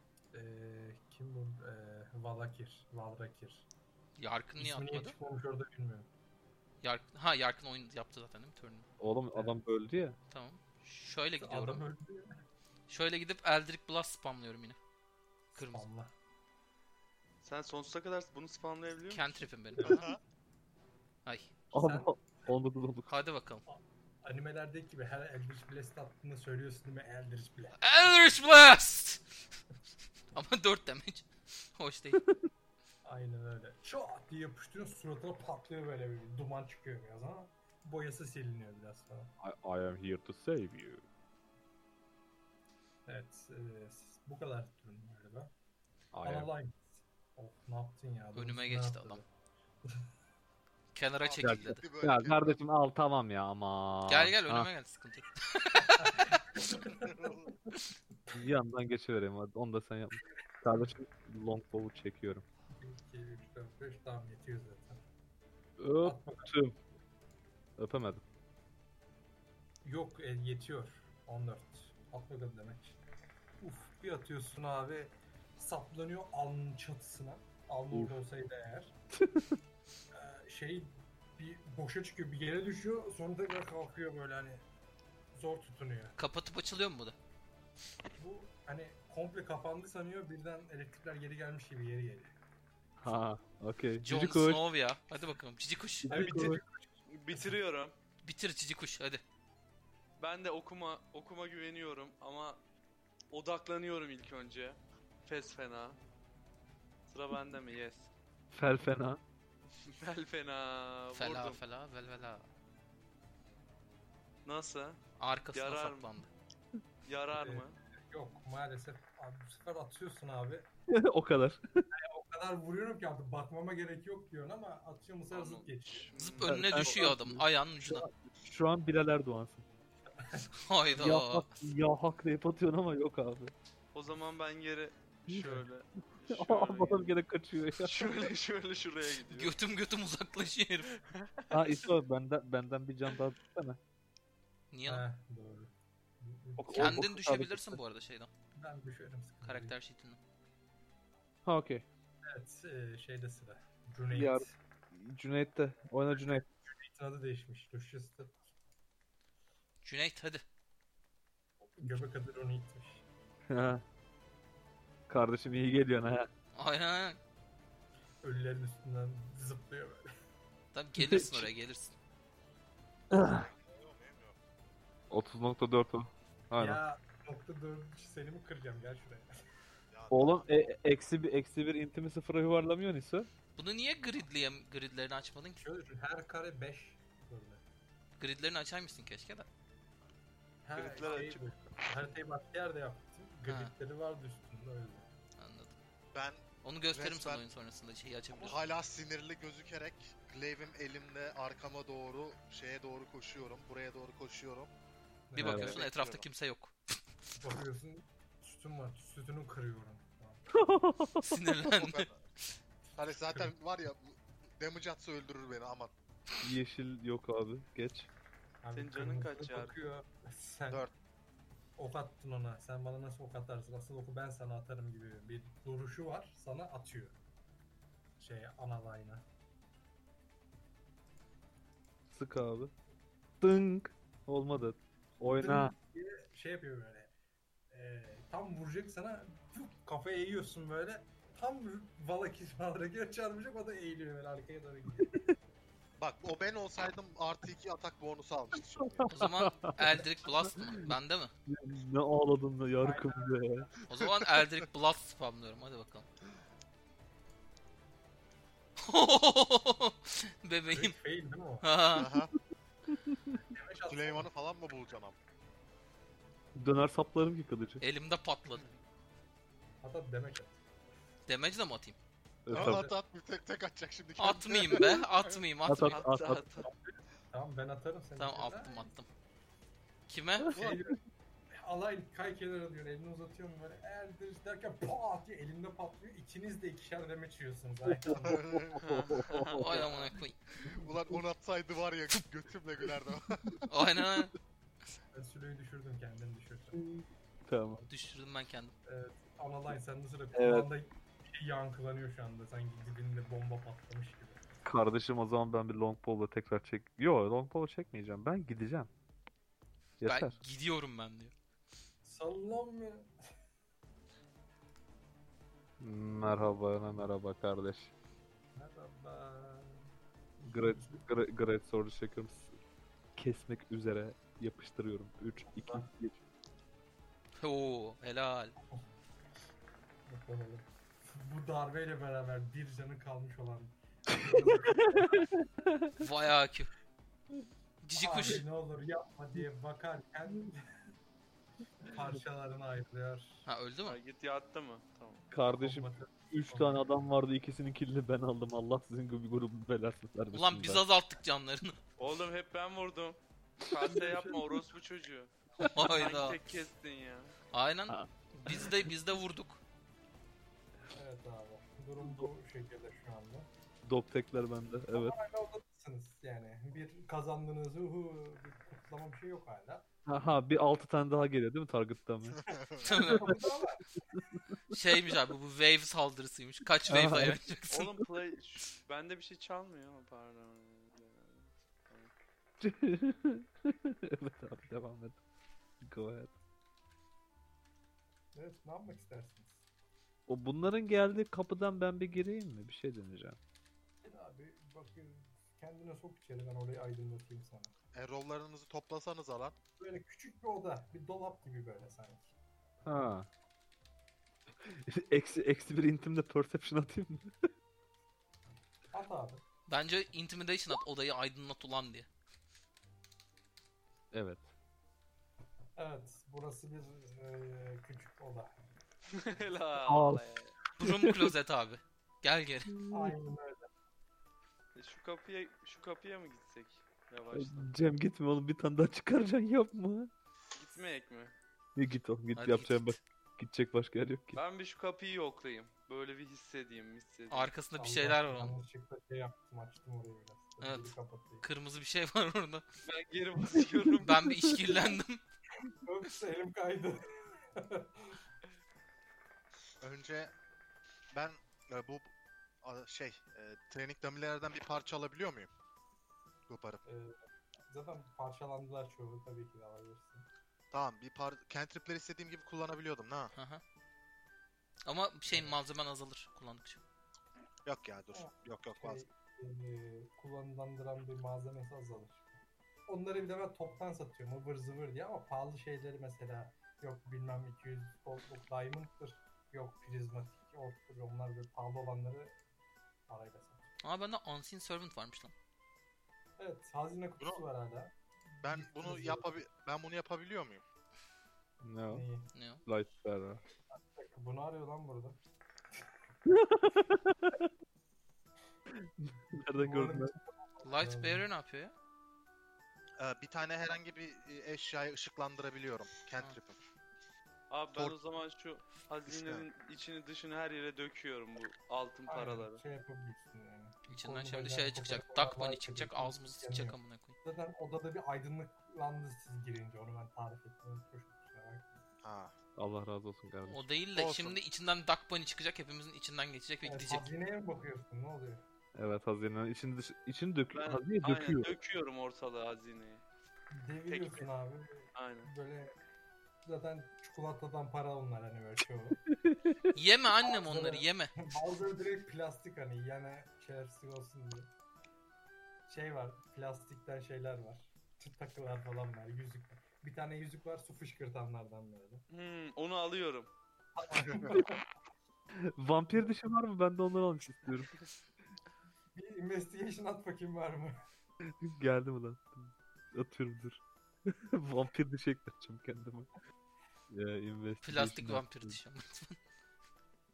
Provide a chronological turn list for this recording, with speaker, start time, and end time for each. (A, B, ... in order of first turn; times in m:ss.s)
0:00.3-0:03.7 A
0:04.2-0:05.2 B
0:04.6-0:06.1 A
0:06.8-0:08.9 B
0:09.0-0:10.2 C
0:09.3-0:09.6 A
0:10.3-0:11.8 B
0:11.4-0:12.2 A
0:12.9-0:14.8 B
0:15.5-0:16.1 A
0:15.5-0:15.8 B
0:17.4-0:19.4 D
0:19.1-0:20.1 B
0:19.7-0:20.0 A
0:19.8-0:20.2 E
0:21.2-0:21.5 B
0:21.7-0:23.1 C
0:21.7-0:22.1 A
0:23.1-0:23.6 B
0:23.6-0:27.8 A
0:27.8-0:29.2 B
0:30.3-0:32.2 B
0:33.0-0:39.3 A
0:39.4-0:41.0 C
0:43.1-0:45.5 A
0:46.1-0:46.5 C
0:46.2-0:49.2 A
0:48.3-0:49.2 B
0:50.9-0:51.8 B
0:51.2-0:52.6 E
0:51.4-0:54.7 C
0:54.1-0:56.2 B
0:55.7-0:57.3 A
0:57.0-0:57.5 E
0:58.3-1:02.4 C
1:02.8-1:05.0 A
1:05.8-1:06.7 C
1:06.0-1:06.5 A
1:07.8-1:08.2 C
1:09.8-1:13.0 A
1:13.6-1:18.9 A
1:19.2-1:19.5 C
1:20.1-1:24.6 A
1:25.3-1:26.1 A
1:26.2-1:27.2 B
1:28.2-1:32.3 A
1:33.0-1:34.6 C
1:34.0-1:36.1 B
1:36.0-1:36.6 C
1:36.1-1:37.6 A
1:37.1-1:37.9 D
1:38.2-1:39.2 B
1:40.2-1:42.6 D
1:43.3-1:46.0 D
1:47.1-1:48.1 D
1:48.5-1:49.2 C
1:49.8-1:51.6 D
1:51.2-1:52.5 B
1:54.4-1:55.0 D
1:55.2-1:56.3 B
1:55.5-1:56.2 D
1:57.0-1:57.8 D
1:57.3-2:00.7 A
2:00.9-2:01.8 C
2:01.9-2:06.1 A
2:05.3-2:07.0 D
2:06.1-2:08.0 B
2:06.4-2:09.6 C
2:10.2-2:11.2 A
2:10.6-2:11.6 B
2:11.0-2:13.5 C
2:13.9-2:17.1 D
2:15.4-2:15.7 A
2:16.3-2:18.0 C
2:17.8-2:19.6 D
2:19.3-2:20.9 B
2:21.0-2:21.6 D
2:21.5-2:23.8 C
2:24.7-2:25.0 B
2:24.9-2:25.7 A
2:26.2-2:27.0 A
2:26.6-2:27.8 C
2:26.7-2:28.3 B
2:28.6-2:29.7 A
2:29.4-2:30.2 B
2:31.4-2:31.8 C
2:32.3-2:34.6 A
2:34.1-2:36.4 C
2:36.1-2:38.3 A
2:39.8-2:40.4 B
2:41.7-2:43.0 A
2:43.5-2:43.8 C
2:45.1-2:46.3 C
2:46.5-2:47.2 B
2:48.2-2:50.0 A
2:50.7-2:52.0 B
2:51.0-2:51.5 C
2:53.1-2:53.5 C
2:53.4-2:54.4 E
2:55.1-2:56.8 C
2:56.6-2:59.3 A
2:59.9-3:00.6 E
3:00.1-3:03.3 C
3:03.6-3:05.6 B
3:05.6-3:07.6 A
3:08.2-3:09.5 B
3:10.6-3:15.1 A
3:10.7-3:11.5 D
3:13.5-3:13.7 B
3:15.4-3:15.7 B
3:16.1-3:17.4 E
3:16.6-3:18.6 B
3:18.4-3:24.7 E
3:25.3-3:25.8 A
3:25.4-3:26.7 B
3:25.4-3:25.8 C
3:25.7-3:26.2 E
3:27.4-3:30.5 A
3:30.5-3:31.5 C
3:31.2-3:32.1 B
3:31.7-3:32.1 E
3:32.9-3:35.9 E
3:33.1-3:33.6 A
3:36.4-3:38.1 C
3:38.6-3:40.8 A
3:38.7-3:39.7 D
3:41.8-3:47.2 A
3:48.2-3:49.2 A
3:52.1-3:52.7 C
3:53.4-3:55.7 C
3:55.3-3:57.1 A
3:57.7-4:05.2 A
4:06.0-4:09.1 E
4:08.8-4:10.0 C
4:09.1-4:11.3 B
4:11.5-4:13.7 C
4:12.8-4:13.9 A
4:13.9-4:16.1 B
4:18.8-4:20.9 B
4:20.7-4:21.7 A
4:21.6-4:22.1 B
4:21.9-4:22.3 E
4:23.0-4:23.4 C
4:23.5-4:24.3 A
4:23.9-4:25.2 E
4:26.5-4:27.8 C
4:27.8-4:28.6 B
4:29.8-4:30.6 A
4:31.3-4:32.0 B
4:32.4-4:32.9 C
4:32.5-4:35.0 E
4:32.5-4:32.9 A
4:34.2-4:36.0 B
4:35.7-4:36.4 C
4:35.9-4:36.7 D
4:36.6-4:38.9 A
4:38.2-4:39.1 B
4:40.1-4:40.6 B
4:40.5-4:40.9 C
4:40.5-4:41.0 A
4:41.6-4:48.4 A
4:47.9-4:49.9 C
4:48.3-4:48.7 E
4:48.8-4:50.1 D
4:49.6-4:50.4 B
4:50.7-4:53.5 E
4:53.7-4:54.3 B
4:55.1-4:56.8 A
4:56.7-4:57.8 C
4:57.9-4:58.7 B
4:58.8-5:04.4 A
5:00.3-5:00.7 C
5:04.6-5:08.9 C
5:10.0-5:10.4 C
5:10.0-5:11.3 B
5:12.0-5:13.1 A
5:15.8-5:17.9 C
5:18.6-5:19.8 A
5:20.4-5:21.0 A
5:20.5-5:22.6 C
5:23.2-5:26.1 C
5:25.5-5:25.9 A
5:27.4-5:28.5 B
5:30.1-5:30.6 A
5:31.2-5:35.3 A
5:35.1-5:35.9 C
5:36.0-5:36.7 B
5:37.8-5:38.4 B
5:38.0-5:40.6 A
5:41.8-5:43.4 A
5:43.4-5:44.0 B
5:43.8-5:45.2 D
5:45.3-5:50.8 C
5:45.6-5:46.9 A
5:50.3-5:51.8 B
5:52.0-5:57.3 D
5:53.8-5:54.7 A
5:55.6-5:56.4 B
5:57.5-5:59.6 B
5:57.9-5:58.8 C
6:00.9-6:03.5 A
6:02.0-6:02.3 C
6:03.8-6:05.1 C
6:04.9-6:09.8 A
6:10.1-6:12.4 C
6:12.4-6:12.8 E
6:12.8-6:13.4 B
6:13.0-6:13.4 C
6:13.1-6:13.9 A
6:14.7-6:17.9 B
6:16.9-6:17.4 C
6:17.7-6:22.1 D
6:22.6-6:25.2 C
6:25.8-6:26.3 C
6:28.3-6:29.6 A
6:30.3-6:33.4 C
6:34.0-6:37.7 A
6:37.9-6:39.6 E
6:39.8-6:42.3 A
6:42.8-6:43.3 C
6:44.6-6:47.3 C
6:48.9-6:49.4 A
6:49.7-6:52.1 B
6:54.1-6:54.5 C
6:55.8-6:58.5 A
6:59.1-7:00.5 D
6:59.8-7:00.2 C
7:00.8-7:02.7 B
7:00.8-7:01.3 C
7:02.7-7:03.2 C
7:02.9-7:03.7 A
7:04.7-7:07.7 D
7:07.3-7:10.1 C
7:10.5-7:11.3 D
7:11.8-7:14.4 C
7:12.3-7:12.8 B
7:14.3-7:17.6 D
7:17.3-7:18.5 B
7:17.7-7:21.4 A
7:20.6-7:22.6 B
7:22.8-7:24.2 D
7:24.0-7:25.2 B
7:25.8-7:28.2 A
7:29.8-7:30.3 E
7:31.1-7:35.5 E
7:36.5-7:36.8 E
7:36.8-7:37.1 A
7:37.7-7:40.2 A
7:40.7-7:43.3 E
7:43.3-7:43.6 B
7:44.8-7:46.8 B
7:45.3-7:45.6 A
7:47.6-7:49.0 E
7:48.1-7:52.3 A
7:52.9-8:02.3 A
8:03.1-8:03.6 A
8:03.8-8:05.3 B
8:06.4-8:09.4 A
8:08.4-8:10.6 E
8:11.6-8:12.0 C
8:11.9-8:12.3 A
8:12.3-8:12.6 B
8:12.6-8:13.4 C
8:13.7-8:15.2 A
8:16.3-8:17.5 C
8:19.0-8:20.1 C
8:19.6-8:21.2 A
8:20.6-8:21.7 B
8:23.0-8:26.6 E
8:27.5-8:32.6 D
8:29.1-8:29.4 E
8:32.1-8:41.7 A
8:33.9-8:37.1 B
8:42.0-8:42.3 E
8:42.6-8:43.7 C
8:43.4-8:47.0 B
8:43.9-8:44.4 E
8:46.6-8:48.4 A
8:48.7-8:51.6 C
8:50.5-8:53.0 D
8:53.5-8:55.7 A
8:53.9-8:54.3 D
8:54.9-8:55.3 D
8:56.4-8:59.0 A
8:59.1-8:59.7 C
8:59.7-9:01.2 B
9:00.2-9:04.5 A
9:05.7-9:12.0 A
9:12.1-9:13.3 D
9:13.8-9:14.6 A
9:15.6-9:17.7 C
9:18.9-9:20.8 A
9:21.4-9:26.1 C
9:26.9-9:28.6 C
9:27.6-9:29.2 B